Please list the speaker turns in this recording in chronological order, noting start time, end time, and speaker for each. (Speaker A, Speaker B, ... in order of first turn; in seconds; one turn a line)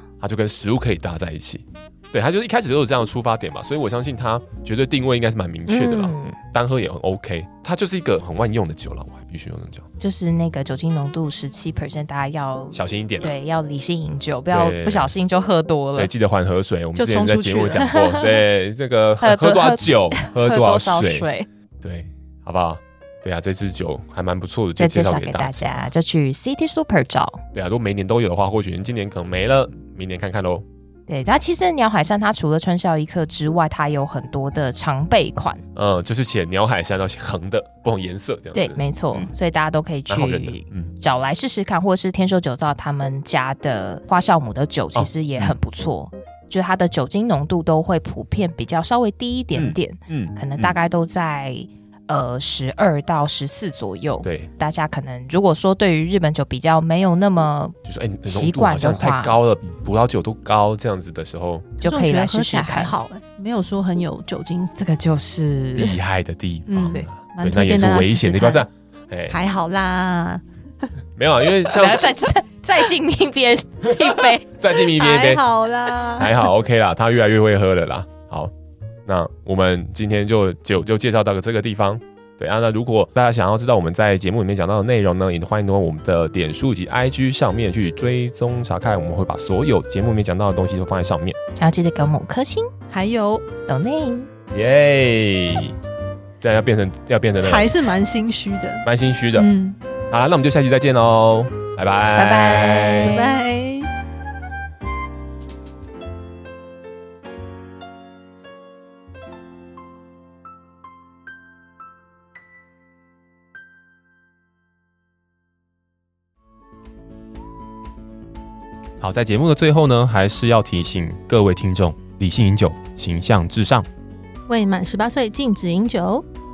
Speaker A: 0.2-9.8
Speaker B: 5.7-6.4
Speaker B: 10.0-16.1
Speaker A: 12.7-13.4
Speaker A: 14.5-15.1
Speaker A: 16.0-21.3
Speaker C: 16.9-17.9
Speaker B: 17.7-18.4
Speaker B: 19.2-21.5
Speaker A: 21.8-25.6
Speaker B: 24.8-27.4
Speaker A: 27.5-30.6
Speaker B: 31.1-35.6
Speaker A: 35.7-39.3
Speaker B: 38.5-57.7
Speaker A: 40.1-40.9
Speaker A: 44.9-45.6
Speaker A: 49.5-50.8
Speaker A: 54.2-54.5
Speaker A: 57.9-61.8
Speaker B: 58.2-59.3
Speaker B: 61.8-62.9
Speaker C: 61.8-64.7
Speaker B: 64.8-66.0
Speaker A: 65.7-69.4
Speaker C: 66.7-68.7
Speaker C: 69.3-70.4
Speaker A: 71.2-72.1
Speaker B: 71.7-74.5
Speaker A: 73.9-75.4
Speaker C: 74.9-76.4
Speaker A: 76.2-78.5
Speaker A: 79.0-91.4
Speaker B: 91.6-92.7
Speaker C: 92.9-93.4
Speaker B: 93.7-94.3
Speaker A: 94.5-95.8
Speaker A: 96.4-97.7
Speaker C: 97.4-99.8
Speaker A: 98.8-99.5
Speaker A: 100.1-103.2
Speaker B: 102.1-103.4
Speaker C: 103.0-103.9
Speaker A: 119.0-123.9
Speaker C: 124.5-126.2